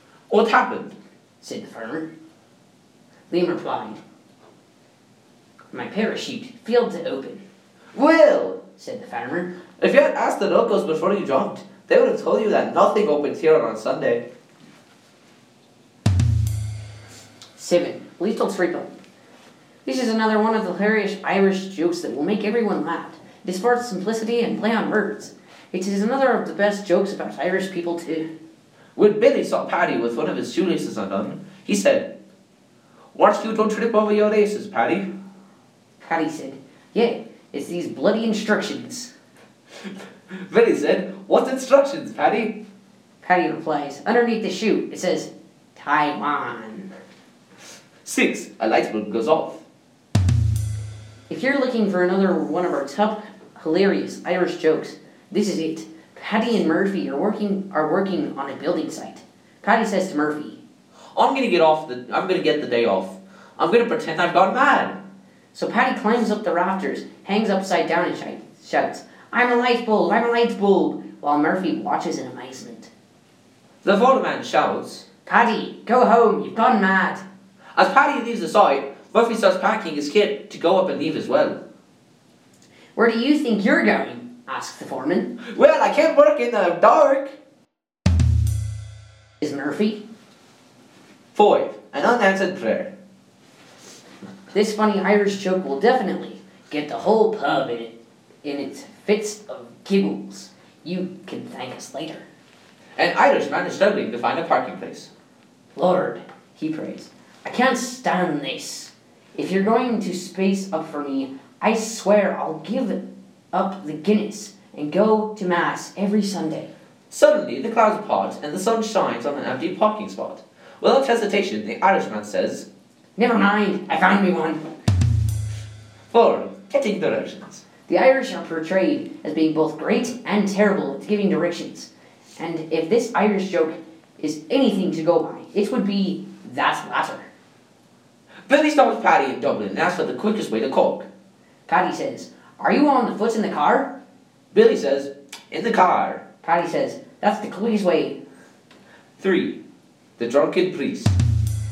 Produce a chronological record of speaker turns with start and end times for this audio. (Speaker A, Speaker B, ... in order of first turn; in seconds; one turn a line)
Speaker A: 0.3-0.9
Speaker B: 1.4-2.1
Speaker B: 3.3-4.0
Speaker B: 5.7-7.4
Speaker A: 7.9-8.6
Speaker B: 8.8-9.5
Speaker A: 9.8-14.2
Speaker B: 17.5-18.9
Speaker B: 19.8-28.2
Speaker A: 28.9-32.1
Speaker A: 33.1-35.1
Speaker B: 36.0-39.1
Speaker A: 40.3-42.6
Speaker B: 43.2-46.9
Speaker A: 48.0-49.6
Speaker B: 51.3-60.6
Speaker A: 61.1-65.0
Speaker B: 65.5-72.9
Speaker A: 73.8-75.0
Speaker B: 75.2-77.2
Speaker A: 77.8-81.6
Speaker B: 83.0-85.3
Speaker A: 85.4-87.3
Speaker B: 89.4-90.0
Speaker A: 91.3-92.9
Speaker B: 94.5-102.2
Speaker A: 103.0-105.1
Speaker B: 105.8-113.0
Speaker B: 113.5-116.7
Speaker A: 117.1-122.7
Speaker B: 123.2-124.6
Speaker A: 126.1-127.6
Speaker B: 127.9-137.3
Speaker A: 138.5-141.1
Speaker B: 141.7-143.9
Speaker A: 144.5-146.2
Speaker B: 146.4-148.2
Speaker A: 149.2-149.6
Speaker A: 150.2-151.1